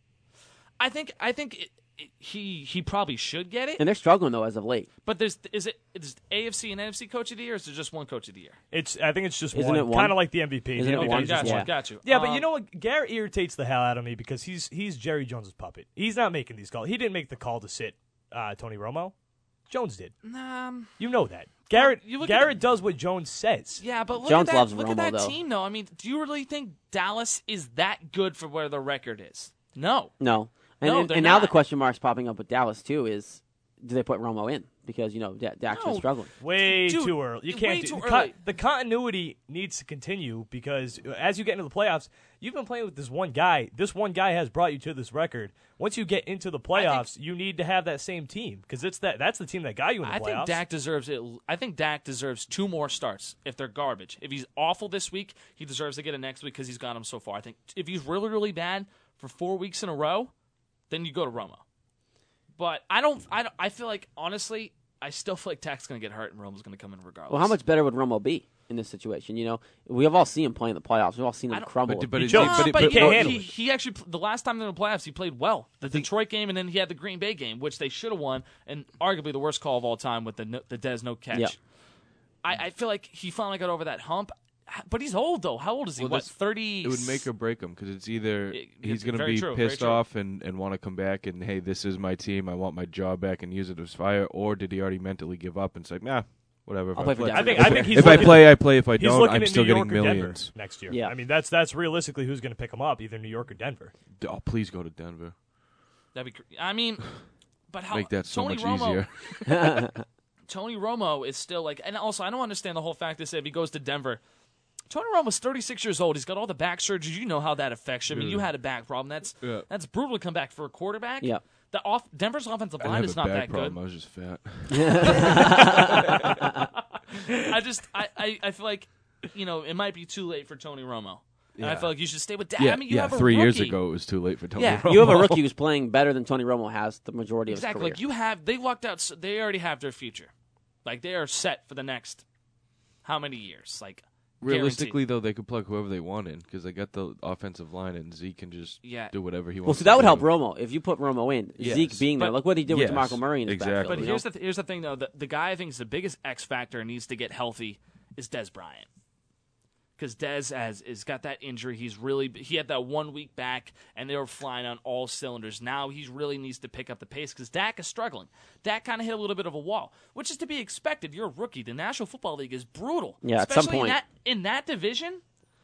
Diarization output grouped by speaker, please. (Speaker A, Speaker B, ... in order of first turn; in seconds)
Speaker A: 0.8-3.8, 5.0-8.6, 10.9-12.5, 20.2-20.9, 21.7-22.5, 23.8-30.1, 30.8-31.6, 35.7-38.4, 46.7-47.1, 50.0-60.3, 60.9-61.6, 62.6-67.6, 72.3-81.6, 82.4-87.3, 88.5-90.0, 106.2-107.1, 107.7-109.7, 110.5-114.2, 114.9-123.8, 125.0-126.3, 127.1-133.8, 134.6-135.3, 137.5-140.3, 140.8-142.2, 143.0-145.0, 148.8-149.1, 153.8-158.9, 160.0-175.2
Speaker B: 3.8-4.9, 9.5-10.2, 10.8-11.7, 24.2-25.4, 30.2-36.3, 67.3-72.3, 97.0-98.4, 109.5-110.0, 124.7-126.7, 134.9-138.0, 149.7-154.2, 173.2-174.0
Speaker C: 8.7-19.1, 19.7-20.1, 21.0-23.8, 36.4-50.6, 72.2-73.4, 97.3-103.9
Speaker D: 71.8-73.5, 86.0-100.5, 104.2-105.3, 107.9-109.9, 118.1-118.5, 122.8-126.5, 131.6-131.9, 132.6-135.4, 144.4-150.3, 151.6-154.1